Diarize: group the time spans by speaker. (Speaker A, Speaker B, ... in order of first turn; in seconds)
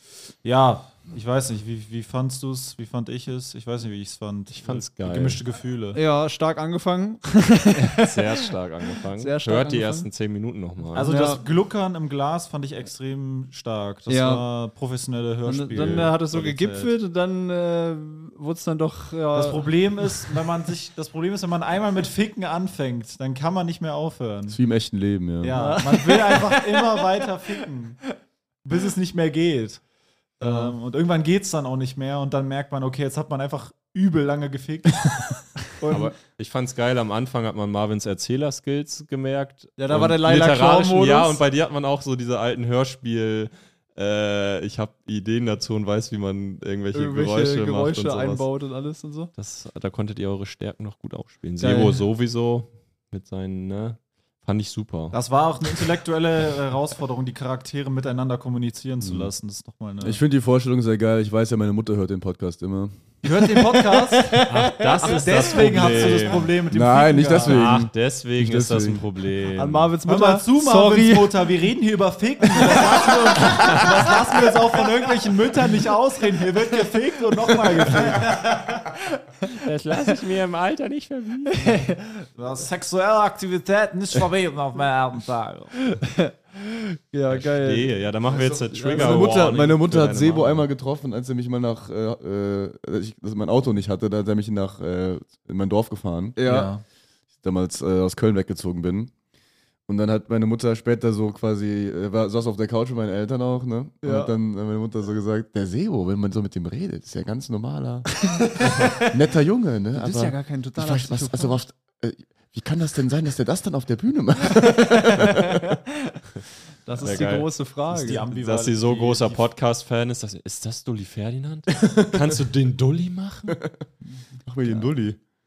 Speaker A: 0.4-6.0, 10.9-16.5, 19.3-24.6, 25.4-28.0, 28.6-29.8, 30.4-36.1, 55.1-60.2, 63.2-64.4, 65.0-67.8, 70.0-78.4, 82.4-83.1, 96.4-96.8, 117.0-117.4, 117.9-119.5
Speaker B: 4.5-5.4, 7.9-11.1, 15.8-16.9, 35.9-48.5, 49.4-55.2, 64.5-66.6, 67.4-69.9, 79.6-81.7, 87.3-90.7, 117.0-123.6
Speaker C: 5.9-10.1, 11.0-11.4, 14.1-14.4, 15.4-20.4, 25.4-27.5, 30.4-30.7, 39.8-41.4, 46.9-49.3, 51.6-52.0, 63.3-65.3, 69.5-71.6, 72.4-74.6, 77.4-78.5, 81.5-82.2, 85.8-89.5, 96.4-96.7, 104.0-104.3, 108.2-109.2, 109.9-111.6, 114.5-116.2, 116.8-118.3, 124.6-124.9
Speaker D: 24.5-25.6, 59.0-59.3, 60.0-63.0, 66.7-69.0, 88.9-96.7, 97.4-99.1, 99.8-108.2, 108.9-115.7, 124.4-125.2
Speaker E: 83.3-85.7